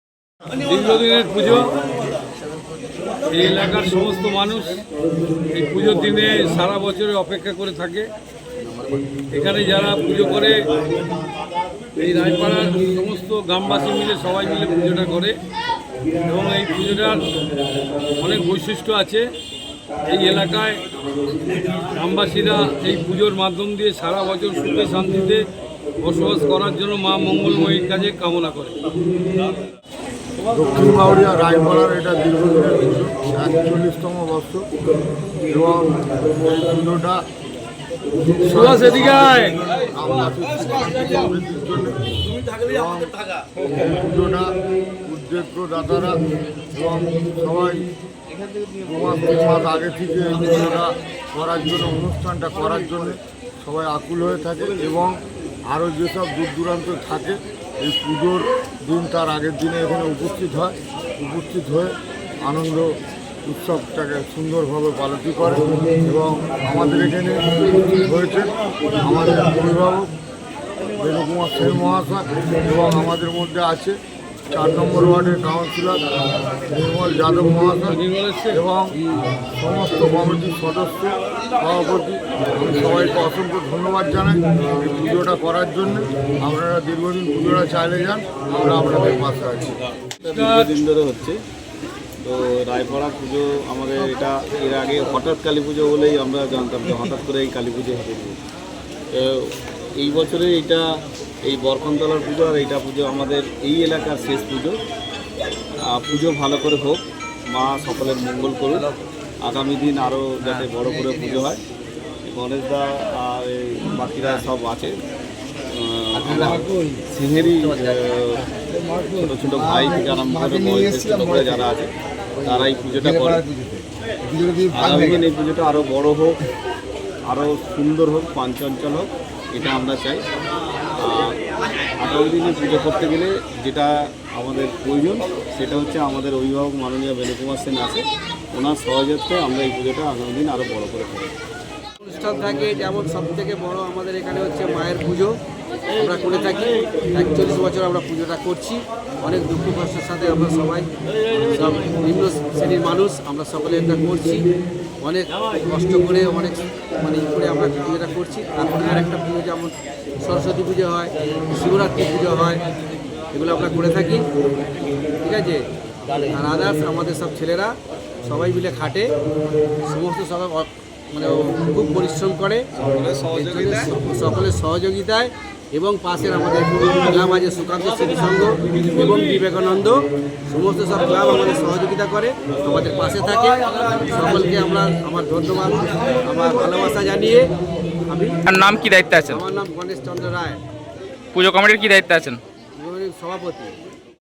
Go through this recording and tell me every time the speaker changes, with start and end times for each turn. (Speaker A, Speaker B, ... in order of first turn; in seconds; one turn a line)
Speaker A: 0.6-1.8
Speaker A: 3.3-4.8
Speaker A: 5.5-8.1
Speaker A: 9.3-10.7
Speaker A: 12.0-15.4
Speaker A: 16.2-17.3
Speaker A: 18.2-19.3
Speaker A: 20.1-20.9
Speaker A: 21.9-25.5
Speaker A: 26.0-28.8
Speaker B: 30.5-34.7
Speaker B: 35.4-37.2
Speaker B: 38.4-47.9
Speaker A: 38.5-39.5
Speaker B: 48.8-70.1
Speaker B: 70.9-74.0
Speaker B: 74.5-78.0
Speaker A: 77.9-78.6
Speaker B: 78.5-79.0
Speaker B: 79.5-89.8
Speaker C: 90.2-91.4
Speaker A: 90.2-90.8
Speaker C: 92.2-98.4
Speaker C: 99.1-100.8
Speaker C: 101.4-104.8
Speaker C: 105.8-108.9
Speaker C: 109.4-111.6
Speaker C: 112.3-115.0
Speaker C: 115.7-121.9
Speaker C: 122.4-123.5
Speaker C: 124.7-126.4
Speaker C: 127.2-130.2
Speaker C: 131.0-131.4
Speaker C: 132.0-141.3
Speaker D: 142.0-145.4
Speaker D: 146.0-150.9
Speaker D: 151.5-154.5
Speaker D: 155.0-162.6
Speaker D: 163.3-164.3
Speaker D: 165.2-165.7
Speaker D: 166.3-169.2
Speaker D: 169.8-172.7
Speaker D: 173.3-187.5
Speaker D: 188.1-188.4
Speaker E: 188.5-189.4
Speaker D: 189.3-190.6
Speaker E: 191.3-192.4
Speaker D: 192.8-193.8